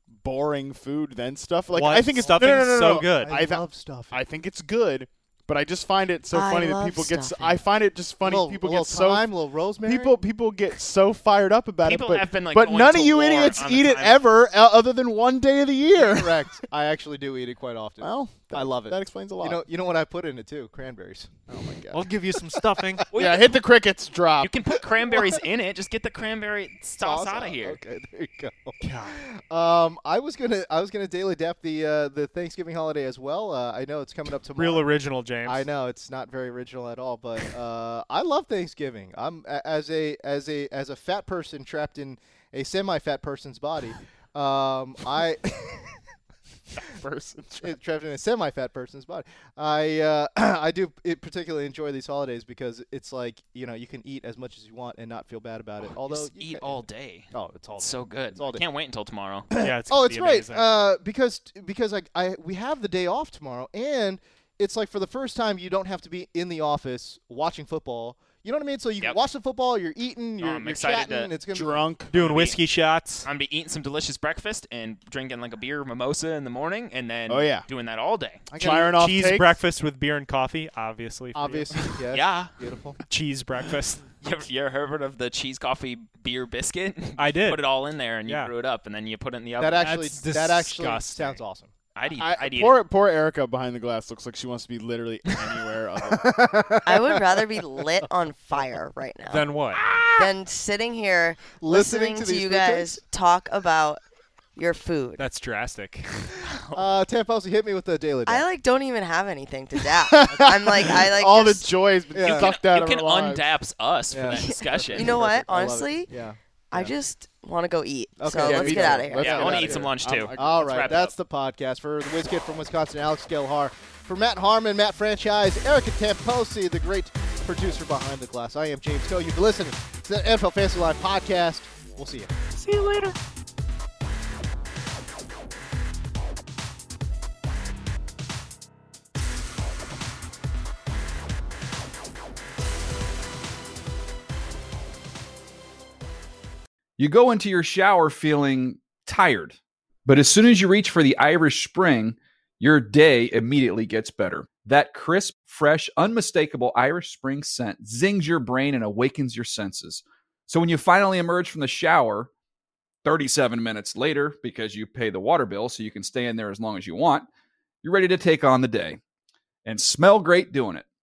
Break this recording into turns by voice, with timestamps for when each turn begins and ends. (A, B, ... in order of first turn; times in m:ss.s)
0:00.2-0:09.3 A
0:01.7-0:03.3 B
0:02.2-0:04.2 C
0:06.3-0:07.6 D
0:08.2-0:10.2 C
0:09.8-0:16.5 A
0:11.8-0:14.2 E
0:16.0-0:21.6 C
0:18.0-0:19.6 A
0:21.5-0:22.1 A
0:21.9-0:23.0 B
0:22.4-0:23.0 C
0:23.1-0:23.6 E
0:23.1-0:24.6 A
0:24.4-0:27.8 E
0:25.0-0:25.4 C
0:27.0-0:34.9 C
0:28.8-0:29.2 B
0:34.6-0:35.6 B
0:35.4-0:45.8 C
0:46.8-0:47.8 A
0:47.6-0:56.8 C
0:55.9-0:59.5 E
0:57.3-0:58.6 C
0:59.5-1:00.7 B
0:59.6-1:11.8 C
1:10.4-1:11.3 E
1:11.5-1:12.1 A
1:12.1-1:13.3 B
1:12.1-1:12.6 E
1:13.2-1:18.4 E
1:17.3-1:17.6 A
1:18.5-1:19.0 C
1:18.6-1:19.6 A
1:18.6-1:22.0 B
1:21.3-1:23.0 C
1:22.1-1:22.5 E
1:23.1-1:24.1 B
1:24.2-1:30.1 E
1:27.2-1:27.6 B
1:28.2-1:28.5 B
1:29.6-1:31.7 C
1:29.8-1:31.4 B
1:32.0-1:32.8 E
1:32.2-1:36.8 A
1:36.1-1:38.1 C
1:36.8-1:39.5 D
1:39.3-1:39.8 B
1:39.8-1:40.3 C
1:40.1-1:44.0 D
1:41.5-1:43.0 C
1:44.6-1:45.2 D
1:45.2-1:46.4 B
1:46.4-1:46.9 E
1:46.7-1:48.4 C
1:48.2-1:51.7 D
1:50.0-1:53.5 A
1:52.1-1:52.5 C
1:52.2-1:55.2 E
1:54.1-1:56.4 C
1:54.3-1:56.1 D
1:56.7-1:59.6 D
1:58.2-2:12.3 C
1:58.4-2:01.1 A
1:59.2-2:01.1 E
2:12.5-2:13.2 B
2:27.0-2:42.3 F
2:43.0-2:47.3 F
2:47.8-2:49.0 F
2:49.6-2:50.8 F